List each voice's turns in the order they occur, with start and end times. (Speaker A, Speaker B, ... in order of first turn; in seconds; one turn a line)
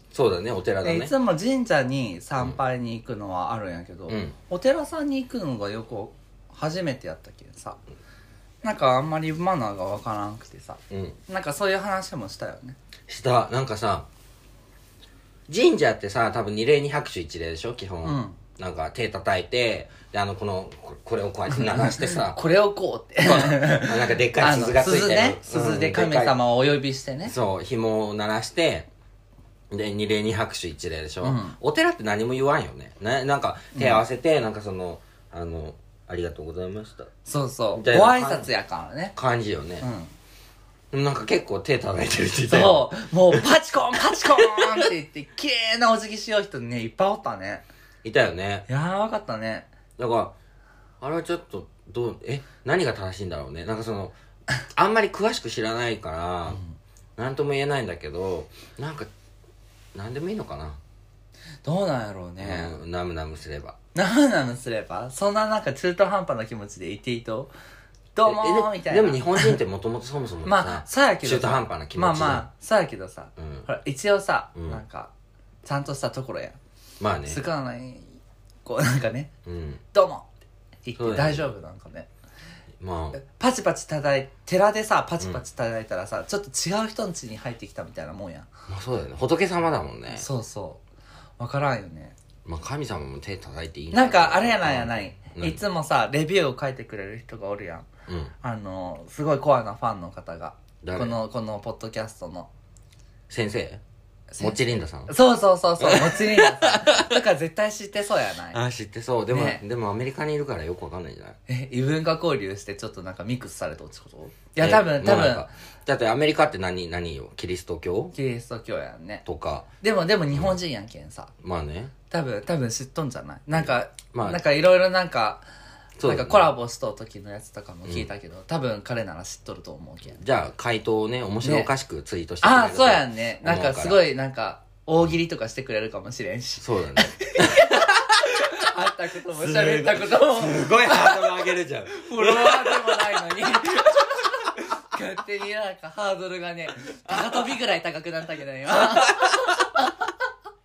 Speaker A: 0.1-1.1
Speaker B: 0.8-7.8
Speaker A: 4.1-4.3
Speaker B: 8.6-12.8
Speaker A: 10.9-11.2
Speaker A: 13.1-14.1
Speaker A: 15.5-22.4
Speaker B: 18.0-18.4
Speaker B: 21.5-27.3
Speaker A: 23.2-26.4
Speaker A: 27.2-28.9
Speaker A: 29.7-37.1
Speaker B: 31.2-31.6
Speaker B: 33.7-34.0
Speaker B: 37.2-39.1
Speaker A: 37.7-38.5
Speaker A: 39.1-39.9
Speaker B: 39.8-40.1
Speaker A: 40.9-43.4
Speaker B: 42.5-47.6
Speaker A: 44.4-44.9
Speaker A: 48.0-48.7
Speaker B: 48.7-49.7
Speaker A: 50.0-50.3
Speaker A: 51.0-54.1
Speaker A: 54.7-56.6
Speaker B: 56.5-56.8
Speaker A: 57.2-59.1
Speaker A: 59.9-60.8
Speaker B: 61.6-62.7
Speaker A: 62.4-63.8
Speaker B: 63.9-67.5
Speaker B: 68.1-69.6
Speaker A: 68.2-72.5
Speaker B: 70.4-75.1
Speaker A: 73.4-73.7
Speaker A: 74.5-74.8
Speaker B: 75.6-76.6
Speaker A: 77.0-77.4
Speaker B: 77.3-79.3
Speaker A: 79.5-79.8
Speaker B: 79.9-80.3
Speaker B: 80.8-82.1
Speaker A: 81.0-81.5
Speaker A: 82.8-83.2
Speaker B: 83.2-88.5
Speaker A: 88.7-90.2
Speaker B: 90.1-90.8
Speaker B: 91.4-92.1
Speaker A: 92.4-95.6
Speaker B: 93.9-97.9
Speaker A: 98.1-98.3
Speaker B: 98.4-102.5
Speaker A: 100.8-101.2
Speaker A: 103.3-103.8
Speaker B: 104.3-104.6
Speaker A: 104.4-105.1
Speaker B: 105.1-108.6
Speaker A: 105.8-107.1
Speaker A: 108.5-111.4
Speaker B: 109.3-109.6
Speaker B: 111.5-115.5
Speaker A: 114.6-118.1
Speaker B: 118.1-119.2
Speaker A: 119.2-119.7
Speaker B: 119.8-121.3
Speaker A: 121.4-121.9
Speaker B: 122.1-125.4
Speaker A: 123.6-124.4
Speaker A: 126.0-126.5
Speaker B: 126.0-130.2
Speaker A: 130.2-134.0
Speaker B: 131.4-131.7
Speaker B: 132.4-149.9
Speaker A: 136.6-144.0
Speaker A: 147.1-147.4
Speaker A: 148.8-149.5